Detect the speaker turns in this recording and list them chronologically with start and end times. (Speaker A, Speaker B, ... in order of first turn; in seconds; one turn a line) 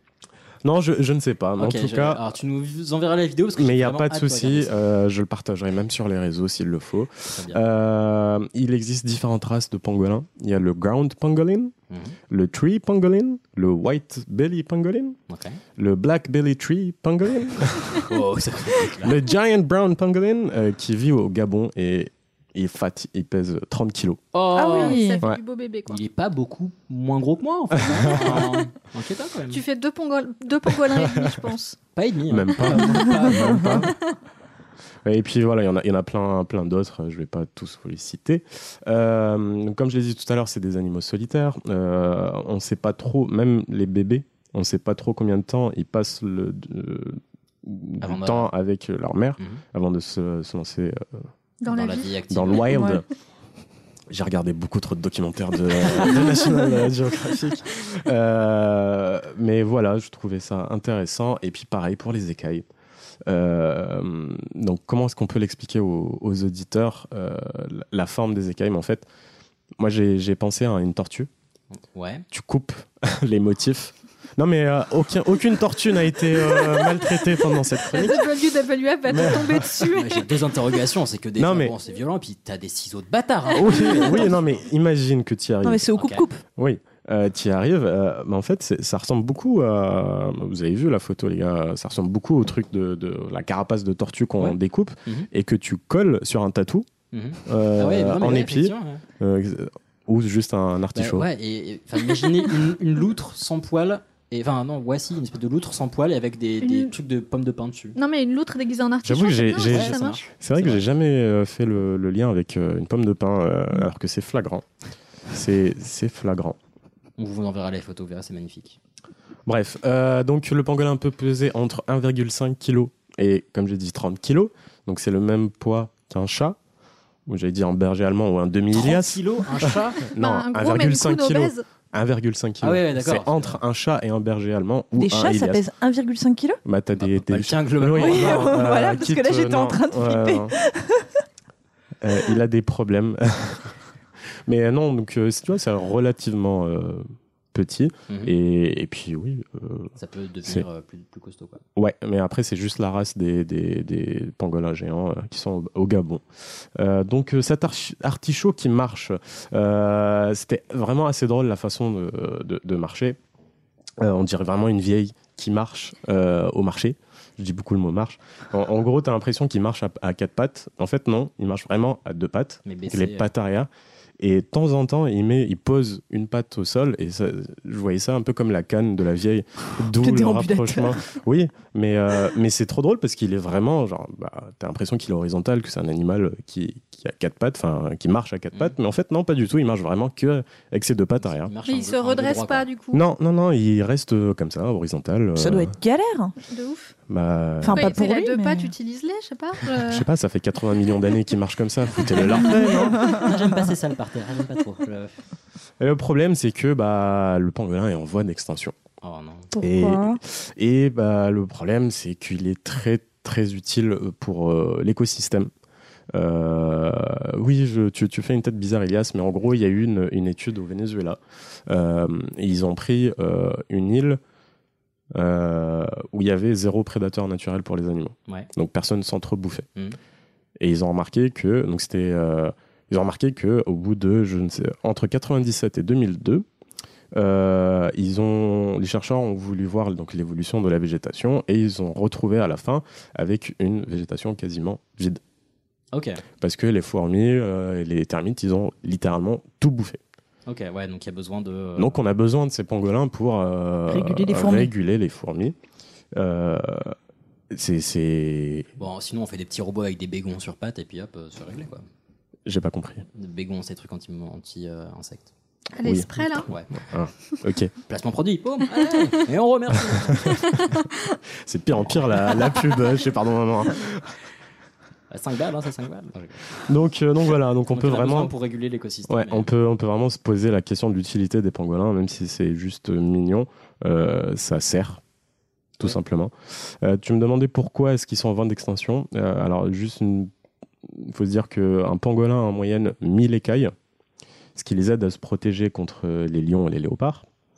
Speaker A: 0.6-2.2
Speaker B: 1.6-4.7
Speaker A: 3.6-11.7
Speaker B: 7.3-7.6
Speaker B: 11.9-12.2
Speaker A: 12.3-15.2
Speaker B: 15.3-15.6
Speaker A: 15.8-18.0
Speaker B: 18.1-19.2
Speaker A: 19.0-24.2
Speaker B: 24.3-25.0
Speaker C: 24.5-25.2
Speaker D: 24.7-26.0
Speaker B: 25.9-29.6
Speaker A: 27.9-28.6
Speaker D: 29.5-31.8
Speaker B: 32.0-33.9
Speaker A: 32.3-33.9
Speaker A: 35.0-51.3
Speaker B: 48.0-48.5
Speaker D: 51.6-52.1
Speaker B: 51.7-52.7
Speaker A: 52.3-53.0
Speaker C: 52.7-53.0
Speaker A: 54.1-62.6
Speaker A: 63.2-69.1
Speaker A: 69.8-71.3
Speaker B: 71.9-72.2
Speaker A: 72.3-78.2
Speaker D: 77.9-80.2
Speaker A: 79.1-79.7
Speaker B: 79.9-84.3
Speaker A: 81.4-81.7
Speaker A: 83.5-85.9
Speaker C: 85.6-86.4
Speaker B: 86.0-86.2
Speaker A: 86.6-96.9
Speaker B: 94.4-95.3
Speaker B: 97.1-99.0
Speaker A: 97.5-101.2
Speaker B: 101.0-108.0
Speaker D: 106.6-106.9
Speaker D: 108.0-110.3
Speaker A: 109.0-114.7
Speaker B: 109.7-110.8
Speaker A: 115.3-116.6
Speaker B: 117.2-118.8
Speaker A: 119.5-126.6
Speaker A: 127.3-135.7
Speaker B: 128.7-130.0
Speaker D: 130.2-131.6
Speaker B: 132.6-133.6
Speaker C: 135.0-136.6
Speaker A: 136.7-140.6
Speaker B: 137.0-138.7
Speaker C: 138.0-141.1
Speaker A: 142.0-143.8
Speaker A: 144.5-149.9
Speaker B: 148.1-148.3
Speaker B: 150.0-151.6
Speaker A: 151.8-163.2
Speaker A: 164.0-191.5
Speaker B: 172.7-173.3
Speaker C: 180.0-180.9
Speaker B: 191.2-192.7
Speaker D: 191.7-193.0
Speaker A: 192.9-195.8
Speaker C: 195.4-196.3
Speaker D: 196.4-196.9
Speaker A: 197.1-197.9
Speaker C: 197.6-198.7
Speaker D: 197.7-200.1
Speaker A: 199.9-203.3
Speaker C: 202.4-203.4
Speaker B: 203.2-205.2
Speaker A: 205.8-208.8
Speaker B: 209.0-209.5
Speaker C: 209.6-210.2
Speaker A: 209.6-215.5
Speaker A: 216.1-224.2
Speaker A: 225.1-229.7
Speaker A: 230.6-236.5
Speaker A: 237.1-245.2
Speaker B: 245.9-246.2
Speaker A: 246.4-250.0
Speaker B: 250.5-251.9
Speaker A: 251.8-255.6
Speaker C: 253.9-254.7
Speaker A: 256.1-256.9
Speaker A: 257.5-258.7
Speaker B: 258.8-261.8
Speaker A: 262.5-263.1
Speaker B: 263.1-265.3
Speaker D: 265.7-266.5
Speaker A: 265.8-267.7
Speaker B: 266.5-266.8
Speaker B: 267.9-270.7
Speaker D: 268.8-269.2
Speaker D: 269.8-270.7
Speaker A: 271.4-274.2
Speaker B: 275.1-276.7
Speaker A: 276.7-278.3
Speaker B: 277.7-279.5
Speaker A: 279.1-285.0
Speaker A: 285.8-290.3
Speaker A: 290.9-293.7
Speaker A: 294.6-297.3